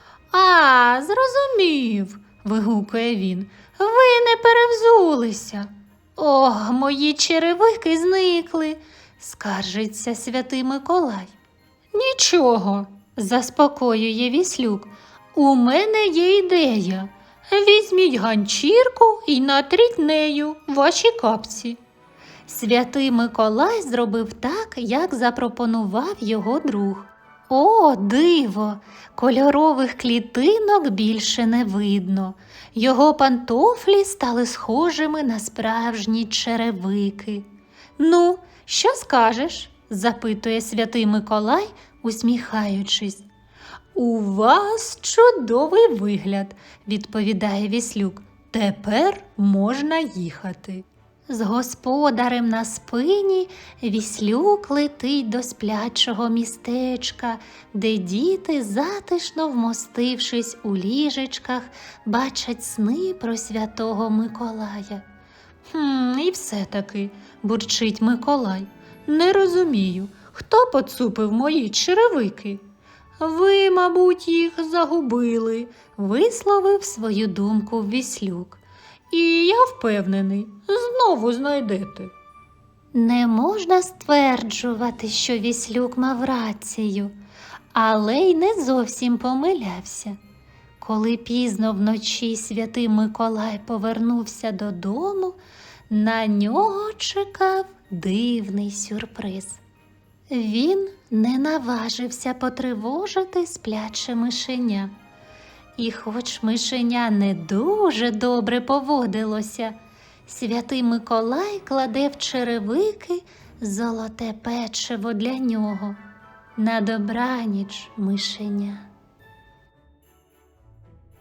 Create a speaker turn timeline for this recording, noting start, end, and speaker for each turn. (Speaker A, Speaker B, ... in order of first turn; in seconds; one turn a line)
Speaker A: 0.3-11.3
Speaker A: 11.9-21.8
Speaker A: 22.5-43.3
Speaker A: 43.9-65.0
Speaker A: 65.7-72.6
Speaker A: 73.2-82.1
Speaker A: 82.9-87.2
Speaker A: 87.7-90.2
Speaker A: 90.8-95.4
Speaker A: 95.9-99.6
Speaker A: 100.3-105.0
Speaker A: 105.8-116.0
Speaker A: 116.6-118.9